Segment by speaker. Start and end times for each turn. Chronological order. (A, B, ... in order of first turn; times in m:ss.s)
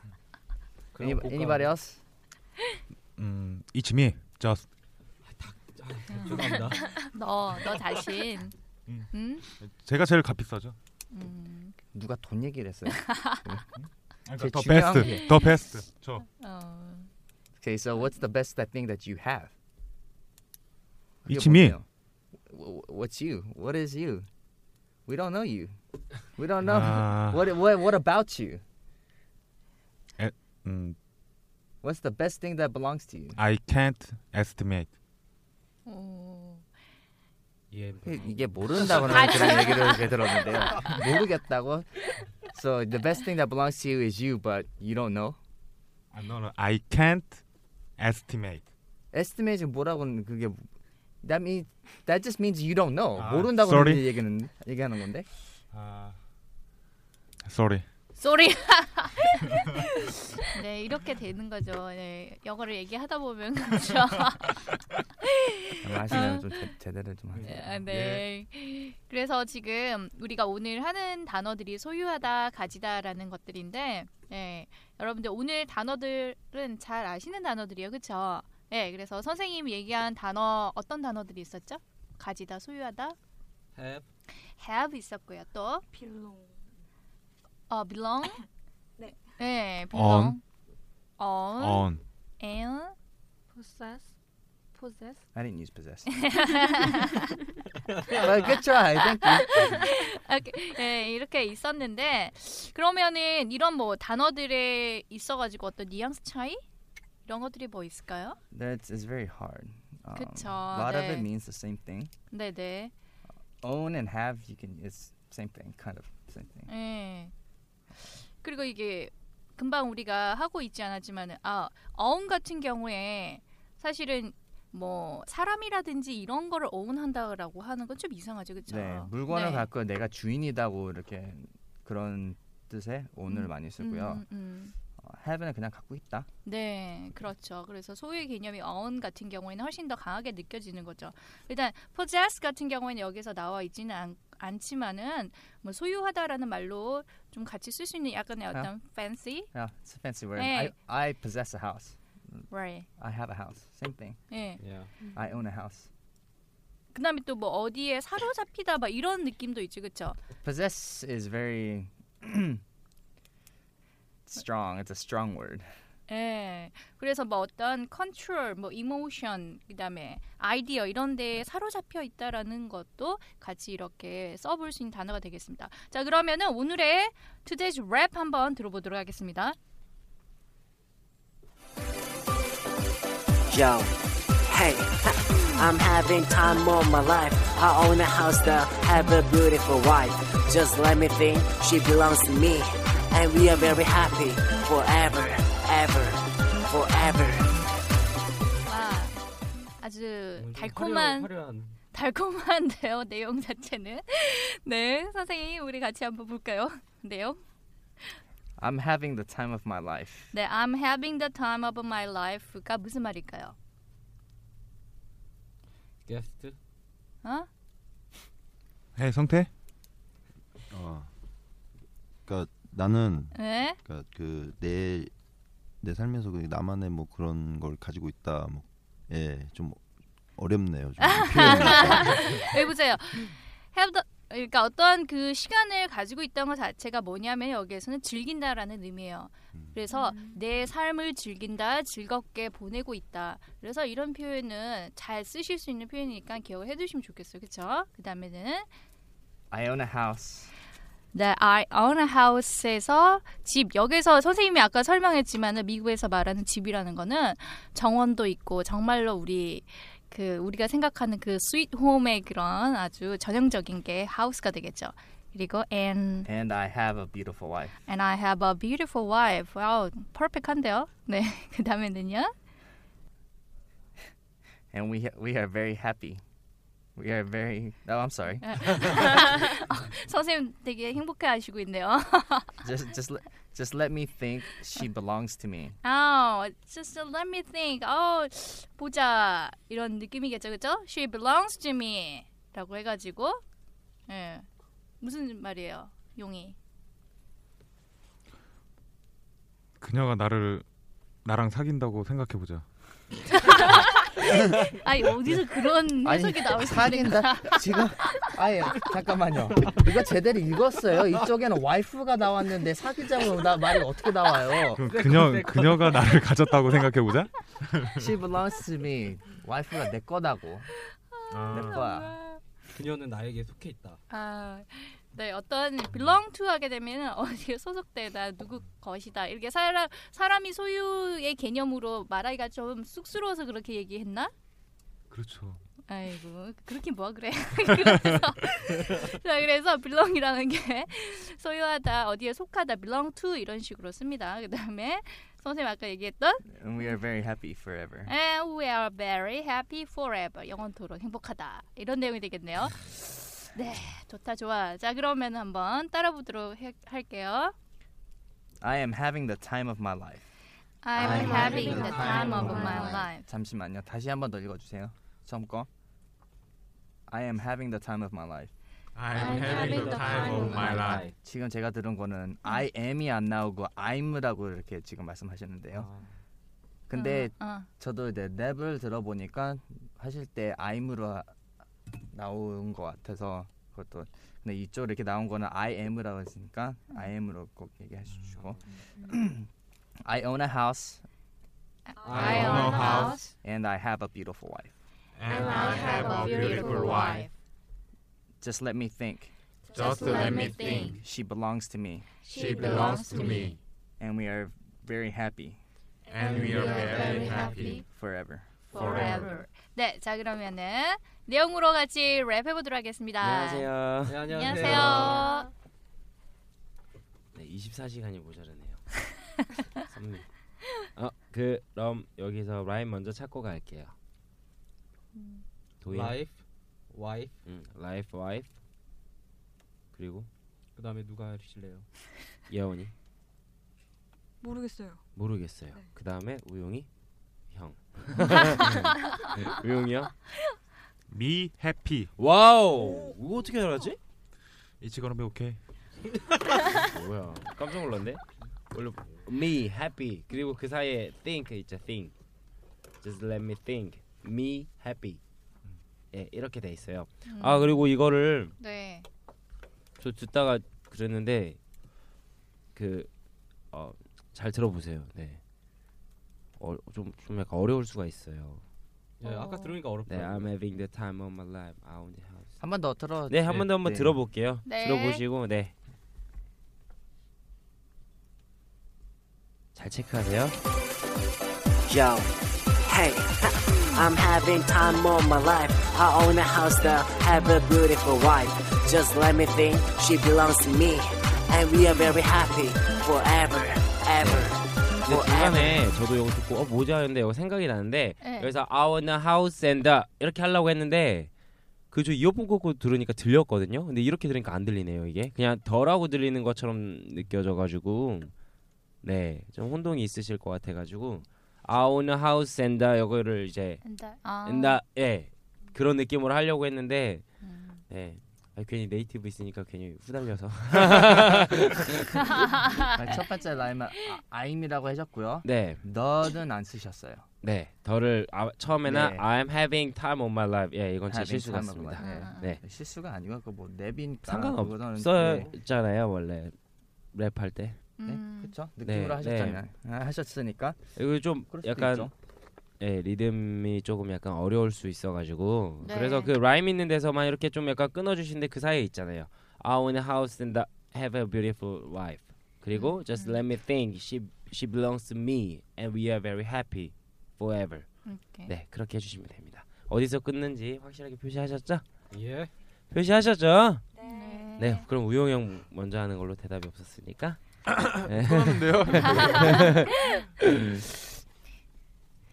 0:00.9-0:01.8 A
0:01.0-0:02.0 B
0:03.2-0:04.6 C
0:05.2-0:06.9 A
0:07.0-0:08.5 D
0:09.1-0:09.4 D
0:09.6-0:10.7 C
0:11.1-0:11.8 D
0:11.9-0:13.6 B
0:13.0-0:13.4 D
0:13.8-0:16.2 C
0:14.4-0:15.4 B
0:15.0-0:15.5 D
0:16.4-0:17.1 D
0:17.6-0:19.5 B
0:21.2-0:21.8 B
0:21.3-0:21.8 C
0:22.4-0:24.3 B
0:25.0-0:25.7 B
0:26.3-0:28.6 B
0:26.6-0:27.4 C
0:30.2-0:31.0 C
0:31.8-0:33.4 B
0:33.4-0:34.9 C
0:35.8-0:36.6 D
0:37.7-0:39.5 A
0:38.0-0:45.4 B
0:39.1-0:40.9 D
0:46.1-0:47.4 C
0:48.0-0:48.6 C
0:49.1-0:50.6 B
0:51.2-0:55.3 B
0:53.1-0:54.1 C
0:55.7-0:56.2 C
0:57.4-0:57.8 C
0:58.2-0:59.7 D
1:00.5-1:04.6 D
1:05.5-1:06.5 D
1:05.8-1:07.5 B
1:07.4-1:08.2 C
1:07.4-1:23.2 D
1:23.7-1:24.1 A
1:24.6-1:25.8 D
1:25.9-1:26.6 E
1:27.7-1:28.4 D
1:29.4-1:30.4 D
1:29.9-1:30.4 C
1:31.2-1:31.9 D
1:31.6-1:32.0 C
1:32.4-1:32.9 D
1:33.5-1:34.1 E
1:34.7-1:35.2 E
1:35.3-1:36.3 B
1:36.2-1:37.2 D
1:38.1-1:39.8 B
1:39.2-1:46.6 D
1:47.2-1:48.4 D
1:48.5-1:52.1 B
1:50.2-1:51.3 D
1:52.3-1:52.9 D
1:53.6-1:56.7 B
1:56.7-1:57.3 D
1:58.4-2:09.7 D
2:08.7-2:14.2 B
2:13.3-2:14.7 D
2:15.0-2:16.3 B
2:16.4-2:29.5 D
2:29.5-2:32.4 B
2:30.4-2:30.7 D
2:32.5-2:32.9 D
2:33.0-2:34.3 B
2:34.3-2:34.6 D
2:34.6-2:34.9 A
2:35.0-2:35.4 E
2:35.1-2:35.9 B
2:36.9-2:40.2 D
2:40.4-2:42.6 B
2:44.3-2:45.7 B
2:46.1-2:59.6 D
3:03.5-3:17.6 F
3:18.6-3:19.2 D
3:19.8-3:21.3 D
3:20.4-3:21.8 A
3:21.9-3:27.4 D
3:28.6-3:30.3 B
3:30.3-3:33.5 D
3:36.0-3:36.6 A
3:39.0-3:39.5 C
3:40.7-3:41.1 G
3:42.2-3:45.1 G
3:43.3-3:43.8 D
3:45.8-3:49.8 G
3:50.4-3:52.4 G
3:51.0-4:08.7 D
3:59.9-4:00.4 E
4:09.5-4:10.5 B
4:11.1-4:26.3 D
4:26.2-4:27.7 B
4:27.9-4:32.3 D
4:34.7-4:36.2 B
4:37.0-4:39.2 B
4:38.4-4:42.6 D
4:42.6-4:45.8 B
4:45.8-4:53.4 D
4:54.1-4:54.4 D
4:55.0-4:56.6 D
4:59.8-5:00.6 C
5:01.2-5:02.6 C
5:03.3-5:08.2 D
5:06.0-5:14.8 B
5:14.8-5:18.0 C
5:14.8-5:16.2 A
5:18.0-5:20.7 B
5:21.3-5:22.3 D
5:21.3-5:21.8 C
5:21.5-5:22.1 B
5:22.7-5:24.0 A
5:24.1-5:34.3 D
5:35.1-5:35.6 C
5:35.9-5:46.4 D
5:46.5-5:48.1 B
5:48.1-5:57.5 D
5:58.6-6:00.2 B
6:00.8-6:03.2 D
6:01.0-6:03.0 G
6:01.0-6:05.7 B
6:01.0-6:03.1 E
6:07.1-6:08.5 B
6:08.9-6:11.1 C
6:09.1-6:11.1 E
6:09.2-6:11.1 A
6:10.5-6:15.9 B
6:15.7-6:16.1 A
6:16.9-6:21.3 B
6:16.9-6:17.7 D
6:22.1-6:29.5 B
6:28.2-6:28.6 A
6:30.0-6:31.0 B
6:31.9-6:33.2 D
6:32.0-6:33.3 E
6:32.1-6:32.6 A
6:32.1-6:33.1 C
6:33.4-6:34.7 B
6:35.2-6:35.5 C
6:35.2-6:37.3 E
6:35.3-6:37.3 D
6:36.0-6:37.2 C
6:38.4-6:39.3 B
6:39.7-6:40.8 E
6:39.8-6:40.7 C
6:39.8-6:41.0 D
6:40.7-6:42.1 B
6:42.2-6:43.6 E
6:42.3-6:43.5 D
6:42.4-6:43.5 C
6:44.0-6:45.6 B
6:46.1-6:47.8 E
6:46.1-6:47.8 C
6:46.3-6:49.1 B
6:46.4-6:47.8 D
6:48.7-6:53.7 D
6:48.8-6:49.2 C
6:48.9-6:49.2 E
6:53.2-6:55.2 H
6:54.0-6:55.2 A
6:54.3-6:55.5 D
6:54.8-6:55.5 E
6:57.3-6:59.0 H
6:59.8-7:03.9 H
7:05.2-7:05.4 D
7:05.8-7:06.2 H
7:05.8-7:07.4 A
7:07.4-7:08.5 H
7:09.9-7:10.3 H
7:10.8-7:11.9 A
7:12.5-7:12.9 H
7:14.4-7:15.0 E
7:15.2-7:16.9 H
7:17.5-7:20.1 H
7:21.1-7:22.1 C
7:22.2-7:24.0 H
7:22.8-7:23.1 E
7:24.8-7:25.6 C
7:26.8-7:32.1 H
7:33.0-7:35.2 H
7:36.1-7:38.5 H
7:37.3-7:37.9 D
7:38.6-7:39.0 D
7:40.0-7:41.6 H
7:42.7-7:43.1 H
7:43.7-7:45.4 H
7:46.6-7:48.6 H
7:49.2-7:50.5 A
7:49.2-7:49.8 E
7:50.1-7:52.6 H
7:52.6-7:54.2 B
7:53.3-7:55.7 H
7:54.6-7:55.2 D
7:59.7-8:00.6 H
8:01.9-8:15.8 F
8:14.2-8:21.3 H
8:18.2-8:18.5 D
8:21.9-8:28.3 H
8:29.0-8:33.8 H
8:33.8-8:34.8 D
8:34.4-8:37.2 H
8:37.4-8:37.8 D
8:37.9-8:42.4 H
8:42.4-8:42.9 D
8:42.9-8:47.2 B
8:45.4-8:45.8 H
8:47.4-8:52.6 H
8:48.8-8:49.2 B
8:51.1-8:55.5 B
8:52.0-8:52.5 D
8:54.2-8:56.5 H
8:57.1-8:57.8 H
8:58.0-8:58.5 D
8:58.0-9:00.8 B
8:58.8-8:59.6 H
9:01.0-9:02.1 H
9:01.5-9:02.1 B
9:02.8-9:17.9 H
9:05.8-9:06.3 D
9:12.7-9:13.4 D
9:18.0-9:18.5 D
9:18.5-9:21.8 H
9:22.1-9:22.5 A
9:22.9-9:23.8 H
9:23.9-9:24.6 E
9:24.0-9:24.8 D
9:24.6-9:30.8 H
9:27.7-9:29.7 C